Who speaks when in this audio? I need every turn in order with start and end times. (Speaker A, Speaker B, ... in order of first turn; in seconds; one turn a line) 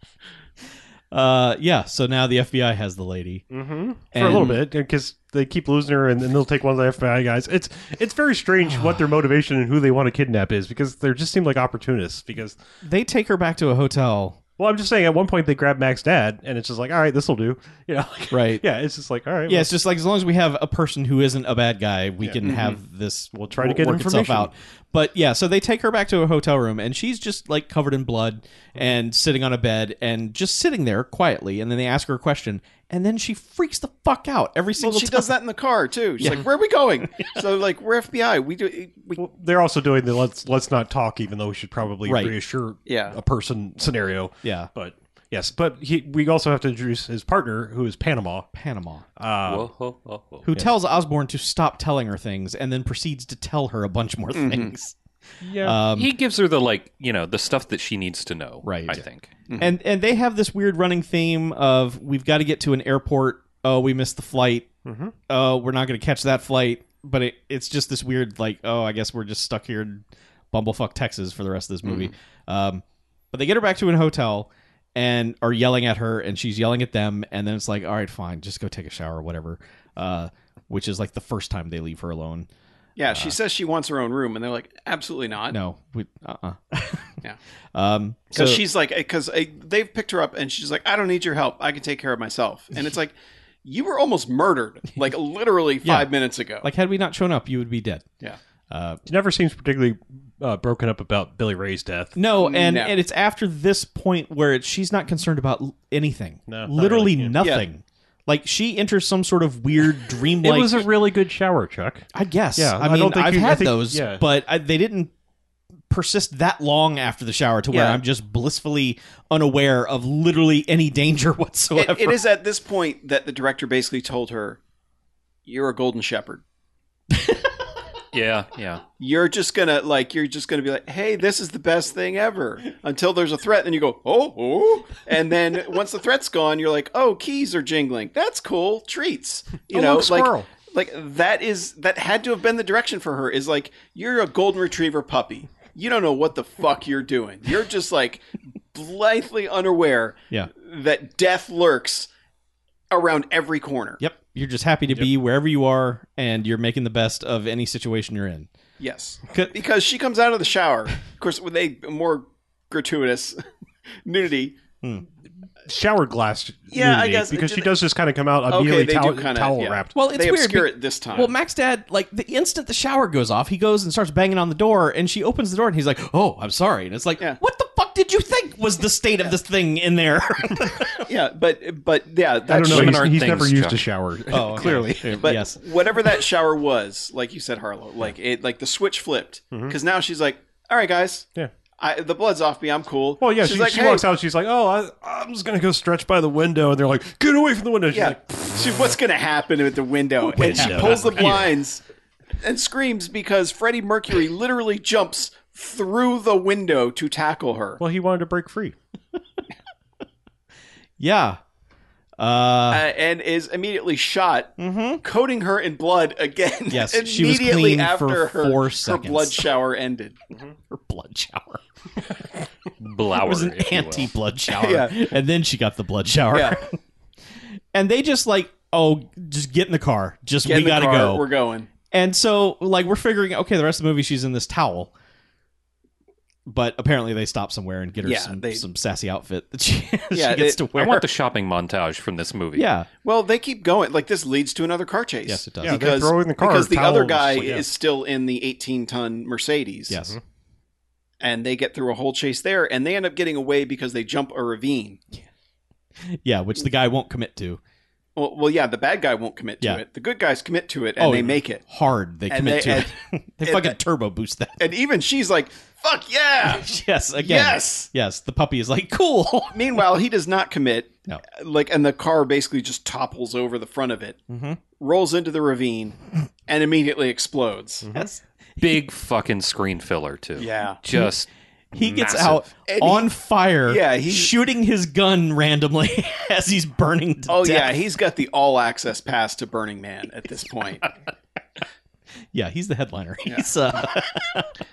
Speaker A: 1.1-3.5
Speaker B: 3.5-12.6
Speaker A: 4.1-4.6
Speaker A: 8.7-9.0
Speaker A: 12.8-14.4
Speaker B: 14.6-19.7
Speaker A: 18.3-18.6
Speaker A: 19.5-35.3
Speaker C: 22.4-22.8
Speaker B: 23.3-24.5
Speaker C: 34.8-39.2
Speaker A: 36.2-36.5
Speaker B: 39.2-48.5
Speaker A: 42.0-42.3
Speaker C: 42.9-43.2
Speaker A: 44.4-44.7
Speaker A: 48.5-49.0
Speaker B: 49.2-49.7
Speaker D: 49.5-50.5
Speaker A: 50.4-55.0
Speaker C: 54.3-54.7
Speaker B: 55.4-55.8
Speaker A: 55.6-56.1
Speaker D: 55.9-59.3
Speaker A: 58.6-59.0
Speaker C: 59.5-59.7
Speaker A: 59.6-64.7
Speaker B: 64.8-65.1
Speaker A: 65.3-82.5
Speaker C: 71.8-72.1
Speaker C: 83.0-85.6
Speaker A: 83.1-83.3
Speaker A: 85.5-87.2
Speaker A: 87.7-88.6
Speaker C: 88.3-96.7
Speaker A: 95.8-96.1
Speaker A: 96.6-98.0
Speaker A: 98.7-99.0
Speaker B: 99.0-102.2
Speaker A: 102.2-110.9
Speaker C: 102.4-103.0
Speaker B: 106.5-107.4
Speaker C: 107.4-107.7
Speaker B: 110.4-114.2
Speaker A: 112.1-115.1
Speaker A: 115.9-122.2
Speaker C: 117.7-118.0
Speaker C: 121.7-124.6
Speaker C: 125.5-126.4
Speaker A: 127.1-127.5
Speaker D: 128.1-128.8
Speaker C: 129.0-152.1
Speaker B: 139.7-140.5
Speaker C: 152.9-154.0
Speaker A: 154.0-158.5
Speaker C: 158.8-163.4
Speaker A: 159.3-159.5
Speaker C: 164.0-164.6
Speaker B: 165.6-169.9
Speaker C: 166.7-167.7
Speaker C: 168.5-171.3
Speaker A: 169.9-181.1
Speaker C: 181.1-183.0
Speaker B: 182.5-185.2
Speaker D: 182.6-183.8
Speaker A: 184.3-185.6
Speaker C: 185.2-191.3
Speaker C: 191.8-194.1
Speaker B: 193.2-198.9
Speaker C: 197.9-201.8
Speaker B: 200.3-201.5
Speaker A: 200.4-201.4
Speaker C: 202.4-207.8
Speaker B: 207.8-208.8
Speaker A: 211.0-211.4
Speaker A: 212.2-212.9
Speaker C: 212.7-220.2
Speaker A: 214.6-215.0
Speaker A: 216.7-219.5
Speaker A: 220.7-221.6
Speaker D: 222.8-224.1
Speaker A: 223.2-226.8
Speaker C: 224.5-225.0
Speaker C: 226.3-226.6
Speaker A: 227.7-231.2
Speaker C: 230.4-231.7
Speaker A: 231.9-234.9
Speaker A: 236.4-241.1
Speaker C: 238.0-238.6
Speaker C: 240.1-240.6
Speaker D: 240.7-242.7
Speaker A: 242.5-242.9
Speaker C: 243.0-250.0
Speaker A: 245.2-245.8
Speaker B: 245.6-247.7
Speaker A: 249.9-250.2
Speaker C: 251.2-255.0
Speaker A: 256.0-257.6
Speaker C: 258.1-261.6
Speaker A: 261.0-264.7
Speaker C: 262.3-262.9
Speaker C: 263.4-263.8
Speaker C: 264.6-267.9
Speaker A: 266.4-269.8
Speaker C: 269.5-274.2
Speaker A: 274.3-274.6
Speaker C: 274.8-277.9
Speaker B: 277.8-278.1
Speaker A: 277.9-278.2
Speaker D: 278.6-282.5
Speaker C: 280.4-280.8
Speaker A: 281.7-287.8
Speaker C: 282.7-283.1
Speaker C: 283.6-284.3
Speaker C: 287.3-290.9
Speaker A: 292.3-294.5